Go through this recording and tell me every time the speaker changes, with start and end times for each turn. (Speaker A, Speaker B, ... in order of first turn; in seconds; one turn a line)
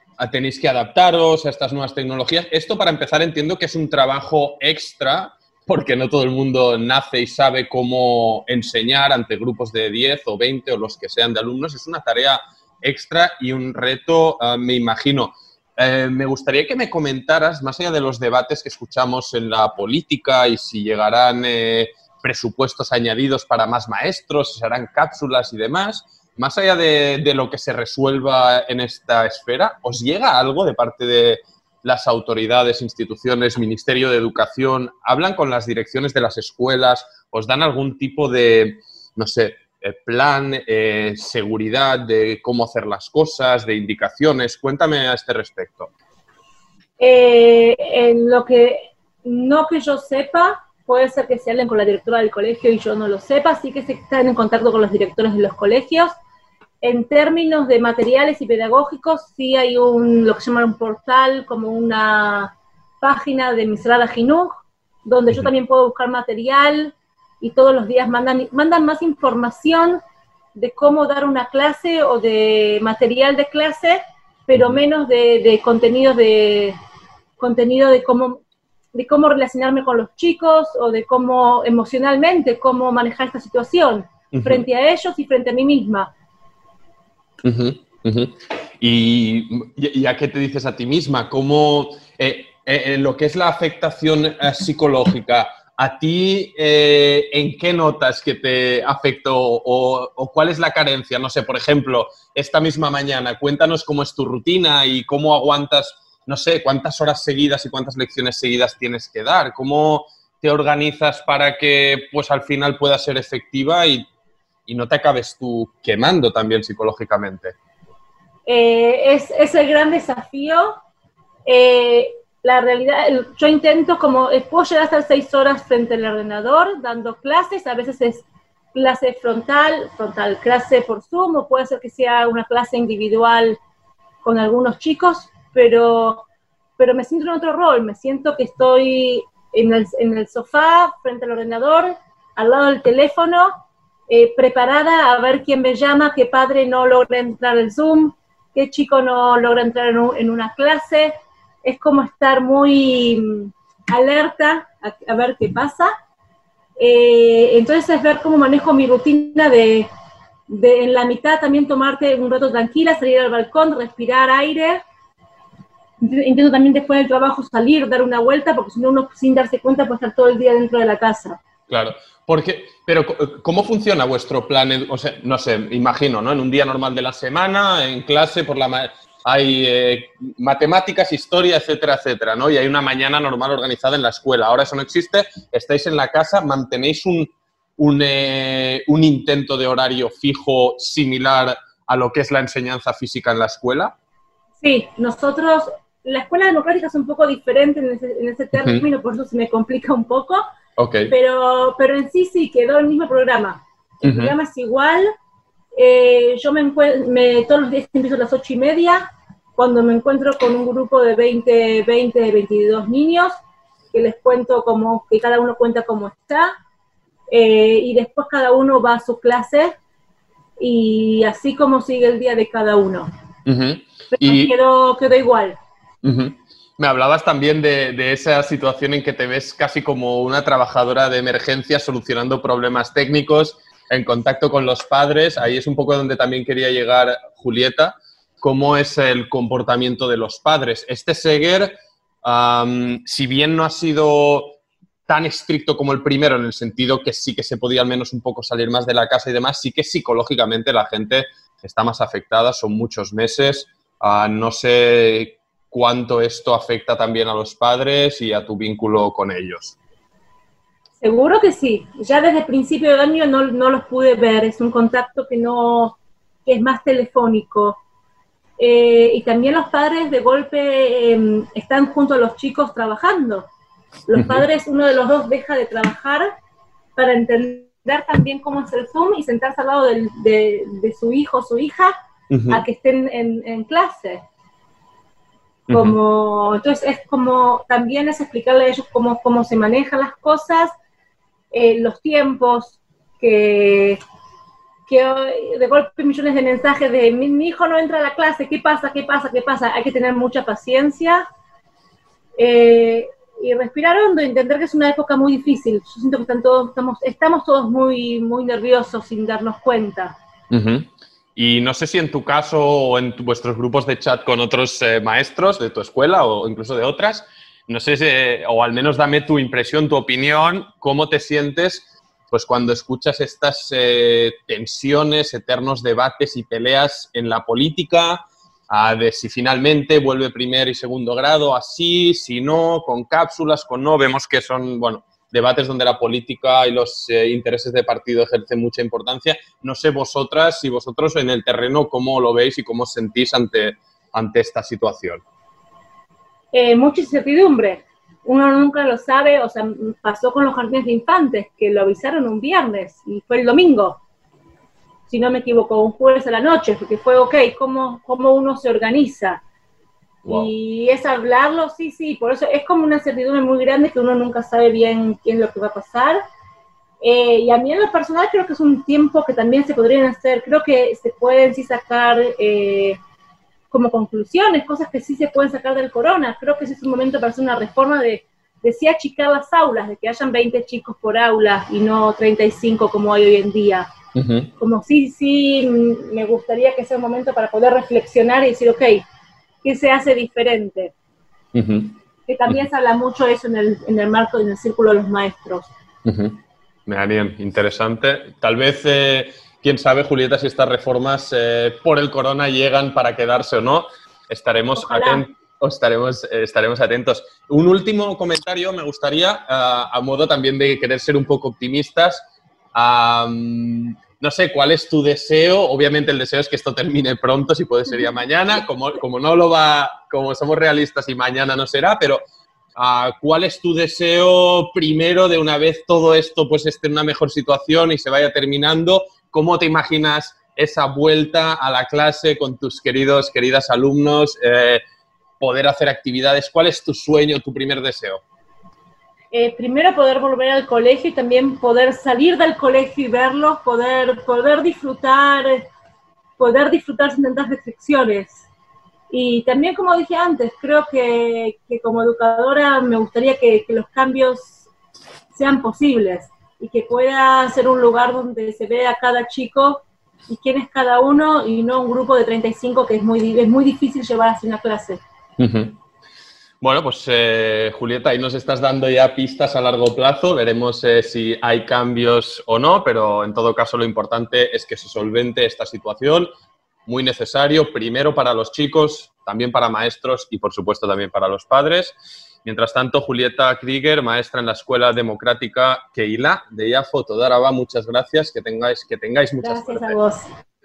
Speaker A: 0.2-45.9
Speaker B: 47.0-56.1
Speaker B: 56.8-70.0
Speaker B: 70.5-76.8
Speaker A: 74.5-74.8
Speaker B: 77.4-78.4
Speaker B: 78.9-86.1
Speaker A: 84.3-84.7
Speaker A: 87.4-114.1
Speaker A: 114.7-117.5
Speaker B: 118.5-120.8
Speaker B: 121.5-133.6
Speaker B: 134.2-136.3
Speaker B: 136.8-143.5
Speaker B: 144.1-155.9
Speaker B: 156.8-159.9
Speaker B: 160.5-164.8
Speaker B: 166.0-171.4
Speaker A: 171.7-193.9
Speaker B: 194.6-200.4
Speaker A: 198.6-198.9
Speaker A: 200.8-201.1
Speaker B: 201.1-205.1
Speaker A: 204.0-204.3
Speaker B: 205.8-213.3
Speaker B: 213.9-216.5
Speaker B: 217.3-219.8
Speaker B: 220.6-223.1
Speaker A: 223.5-224.6
Speaker B: 224.2-225.6
Speaker A: 226.0-259.8
Speaker B: 261.0-267.8
Speaker B: 268.6-273.5
Speaker B: 274.1-276.3
Speaker A: 274.2-274.4
Speaker B: 277.0-281.9
Speaker A: 282.3-282.6
Speaker B: 282.5-284.2
Speaker B: 285.7-290.7
Speaker A: 285.7-286.0
Speaker B: 291.5-294.0
Speaker B: 294.9-301.2
Speaker B: 302.4-310.2
Speaker A: 310.5-345.2
Speaker B: 346.5-354.0
Speaker B: 355.1-359.4
Speaker A: 360.2-360.5
Speaker B: 360.3-366.2
Speaker B: 367.0-373.0
Speaker B: 373.7-383.9
Speaker A: 384.1-384.5
Speaker B: 384.6-389.1
Speaker B: 389.6-390.9
Speaker A: 391.5-391.9
Speaker B: 392.3-395.7
Speaker A: 396.1-422.2
Speaker B: 404.8-405.3
Speaker A: 422.8-434.8
Speaker A: 435.4-438.2
Speaker B: 439.3-445.7
Speaker B: 446.4-448.5
Speaker B: 449.1-454.6
Speaker B: 455.3-465.0
Speaker A: 465.4-465.8
Speaker A: 466.6-476.3
Speaker A: 476.9-490.0
Speaker B: 489.4-490.3